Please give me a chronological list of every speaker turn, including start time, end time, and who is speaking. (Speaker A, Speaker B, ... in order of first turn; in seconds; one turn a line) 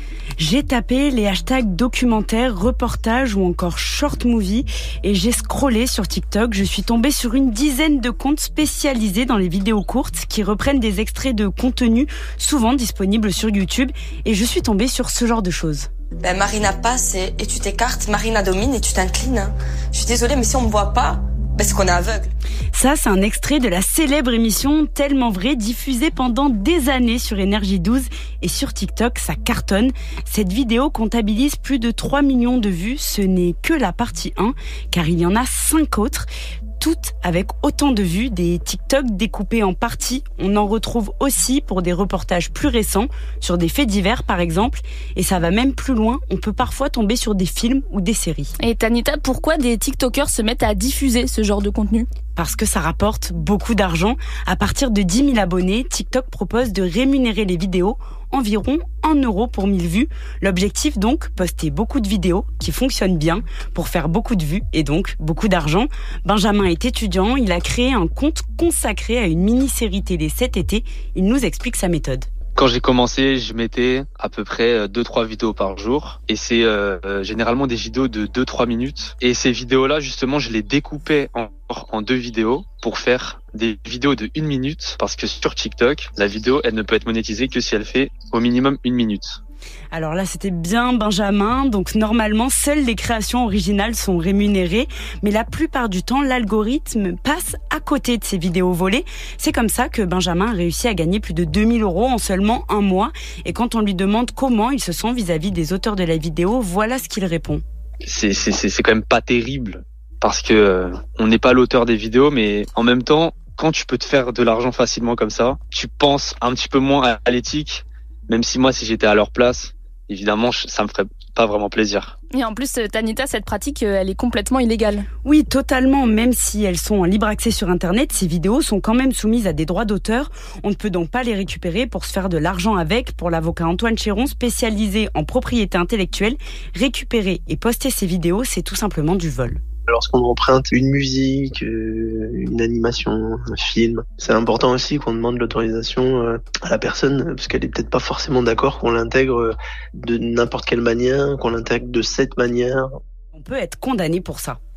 Speaker A: 0.4-15.9
Speaker B: 16.2-22.3
Speaker A: 22.7-36.3
Speaker A: 36.8-48.5
Speaker C: 48.6-52.0
Speaker A: 52.4-72.3
Speaker D: 72.5-89.4
Speaker A: 89.9-107.6
Speaker D: 108.0-122.1
Speaker C: 122.3-125.0
Speaker A: 125.2-139.6
Speaker E: 139.9-152.9
Speaker A: 153.3-154.6